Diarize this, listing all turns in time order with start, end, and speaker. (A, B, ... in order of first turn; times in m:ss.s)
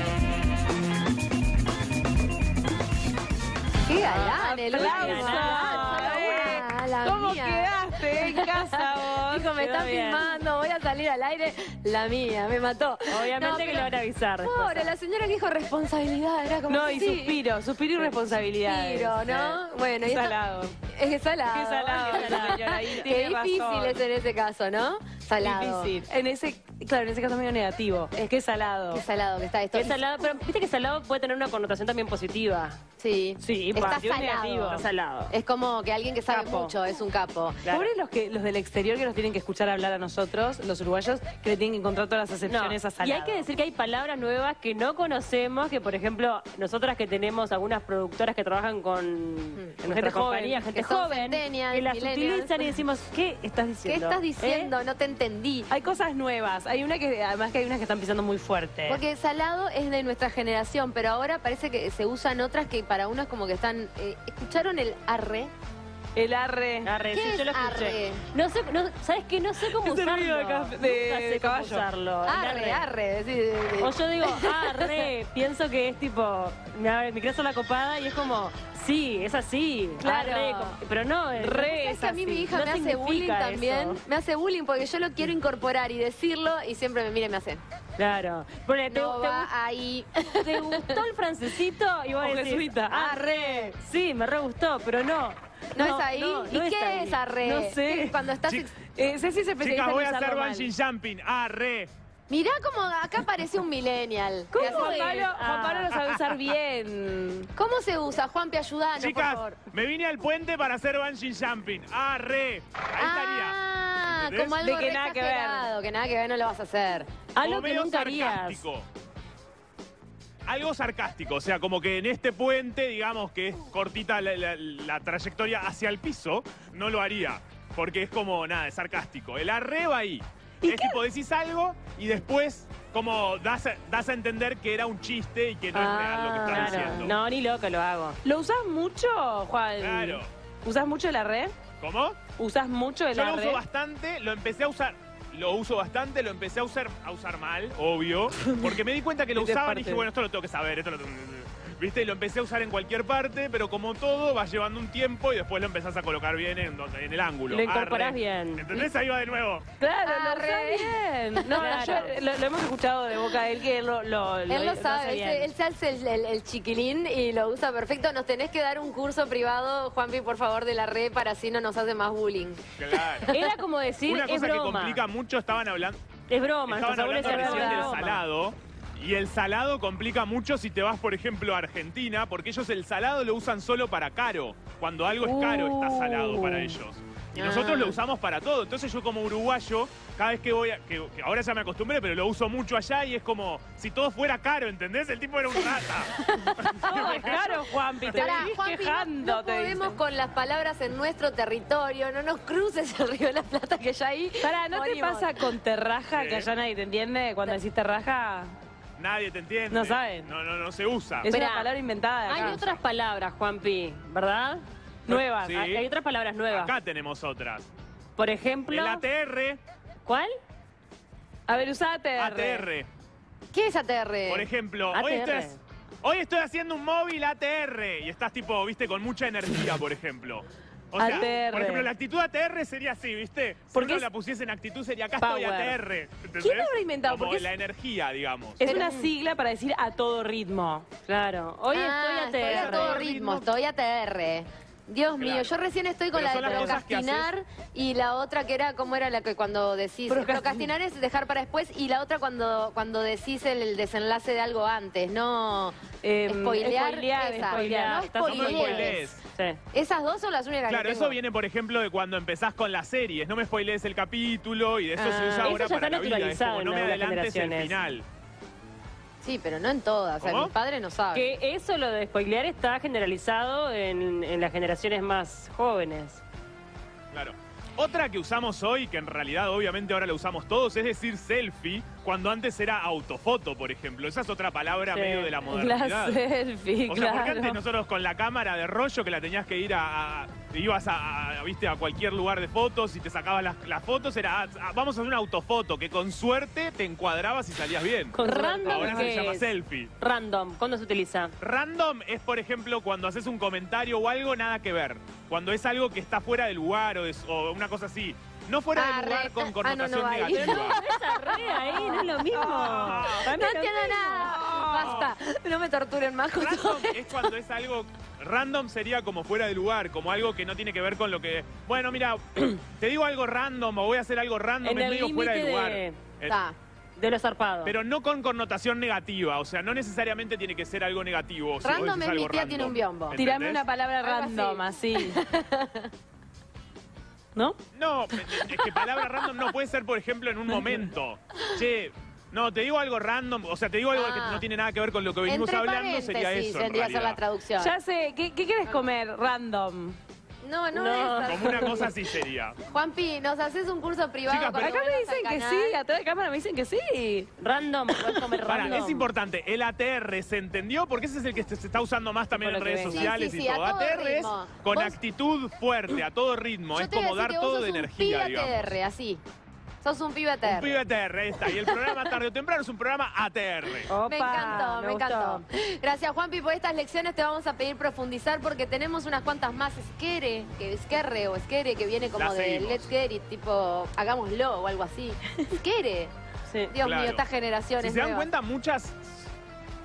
0:03.8-0:08.7 A
0:04.1-0:06.6 B
0:04.4-0:09.6 C
0:09.2-0:17.4 A
0:09.6-0:10.3 B
0:13.1-0:14.9 B
0:16.7-0:20.7 C
0:18.6-0:20.4 A
0:20.9-0:25.9 A
0:21.5-0:24.0 C
0:21.9-0:22.6 B
0:25.4-0:29.0 C
0:28.9-0:30.0 A
0:29.7-0:32.8 B
0:33.0-0:34.8 A
0:33.4-0:34.8 C
0:33.8-0:34.0 B
0:34.7-0:35.3 B
0:35.3-0:37.6 A
0:36.3-0:36.7 C
0:36.4-0:36.7 B
0:37.7-0:43.5 C
0:42.5-0:54.7 B
0:49.8-0:50.6 C
0:50.7-0:52.8 A
0:53.8-0:55.7 A
0:55.7-0:59.0 C
0:58.9-1:05.5 A
1:06.2-1:06.9 C
1:06.8-1:12.8 B
1:07.1-1:08.2 A
1:09.6-1:11.8 C
1:12.2-1:15.0 A
1:13.8-1:24.0 B
1:20.0-1:20.8 A
1:21.4-1:27.6 A
1:28.0-1:29.5 B
1:28.9-1:30.8 A
1:30.4-1:37.2 B
1:32.2-1:33.7 C
1:33.0-1:33.7 A
1:35.8-1:38.7 A
1:37.4-1:38.2 C
1:38.8-1:40.7 C
1:39.6-1:41.9 D
1:42.3-1:45.2 A
1:44.5-1:45.9 B
1:44.5-1:47.5 C
1:47.6-1:49.6 A
1:49.0-1:54.6 D
1:53.0-1:57.1 A
1:54.6-1:55.7 C
1:57.4-1:58.6 B
1:57.4-1:58.9 D
2:00.5-2:17.2 D
2:10.6-2:11.0 C
2:15.7-2:17.1 A
2:16.5-2:18.2 B
2:16.6-2:17.0 C
2:18.2-2:21.5 C
2:19.8-2:20.3 D
2:21.8-2:22.2 D
2:22.4-2:23.6 C
2:23.1-2:39.6 D
2:29.4-2:30.1 C
2:37.5-2:38.7 B
2:39.8-2:45.5 C
2:40.0-2:41.0 A
2:41.5-2:42.0 A
2:41.5-2:42.1 B
2:44.5-2:53.3 A
2:52.8-2:53.3 D
2:53.3-2:55.0 B
2:54.1-2:56.0 D
2:56.3-2:58.2 B
2:56.7-3:16.2 D
2:57.2-2:58.0 A
2:57.3-2:57.9 C
3:07.4-3:08.0 A
3:16.3-3:17.4 A
3:16.8-3:20.0 C
3:16.9-3:17.6 D
3:18.1-3:25.4 A
3:24.4-3:28.6 C
3:26.1-3:26.5 D
3:29.0-3:31.3 D
3:29.7-3:30.3 C
3:31.2-3:32.8 C
3:31.3-3:31.7 A
3:32.3-3:36.7 B
3:35.1-3:35.6 C
3:35.3-3:35.9 D
3:36.5-3:37.7 D
3:38.2-3:39.0 B
3:38.7-3:39.6 D
3:40.1-3:40.3 B
3:41.5-3:42.7 C
3:42.2-3:42.9 D
3:43.5-3:44.5 A
3:44.3-3:45.5 D
3:44.9-3:45.6 B
3:46.0-3:58.7 D
3:51.0-3:51.9 C
3:53.7-3:54.1 C
3:55.2-3:55.8 C
3:56.4-3:57.5 C
3:58.6-4:00.9 C
3:58.6-3:58.9 A
3:58.7-3:59.0 B
4:01.1-4:03.1 B
4:01.7-4:15.8 A
4:02.4-4:03.4 C
4:05.2-4:05.6 D
4:06.1-4:07.3 D
4:06.4-4:06.8 C
4:10.1-4:10.7 C
4:16.0-4:18.7 C
4:16.3-4:19.1 A
4:17.4-4:19.6 B
4:18.2-4:19.2 D
4:19.7-4:21.2 A
4:20.7-4:28.0 D
4:25.0-4:25.6 A
4:25.4-4:27.8 B
4:29.2-4:31.3 A
4:30.2-4:30.5 D
4:31.1-4:36.2 B
4:37.1-4:46.2 D
4:44.9-4:45.4 B
4:45.5-4:47.6 C
4:46.9-4:58.2 D
4:58.2-5:01.3 B
4:58.2-4:59.3 C
4:58.7-4:59.9 D
5:01.4-5:10.8 D
5:08.8-5:12.4 A
5:10.3-5:14.4 B
5:12.4-5:13.2 C
5:12.8-5:13.2 D
5:13.2-5:17.3 A
5:14.4-5:14.9 C
5:16.4-5:26.4 D
5:24.6-5:26.0 B
5:26.3-5:26.6 A
5:27.0-5:27.8 B
5:27.6-5:33.6 D
5:31.6-5:33.2 A
5:33.1-5:35.2 C
5:34.1-5:35.9 A
5:37.7-5:47.2 D
5:38.5-5:39.0 A
5:43.9-5:44.4 A
5:45.3-5:47.7 A
5:47.6-5:50.0 C
5:50.4-5:51.9 A
5:50.7-5:51.4 B
5:51.3-5:52.6 D
5:52.7-5:55.8 A
5:54.3-5:54.8 D
5:54.6-5:57.3 C
5:57.4-5:59.1 B
5:58.1-5:58.5 C
5:58.5-6:08.7 D
6:02.4-6:03.1 B
6:02.9-6:05.0 A
6:06.7-6:09.2 A
6:09.8-6:10.8 A
6:10.4-6:13.9 D
6:11.4-6:12.1 A
6:13.9-6:15.4 B
6:14.0-6:26.1 A
6:22.2-6:22.9 D
6:26.5-6:26.8 B
6:26.7-6:28.3 A
6:26.8-6:27.2 D
6:27.8-6:29.3 D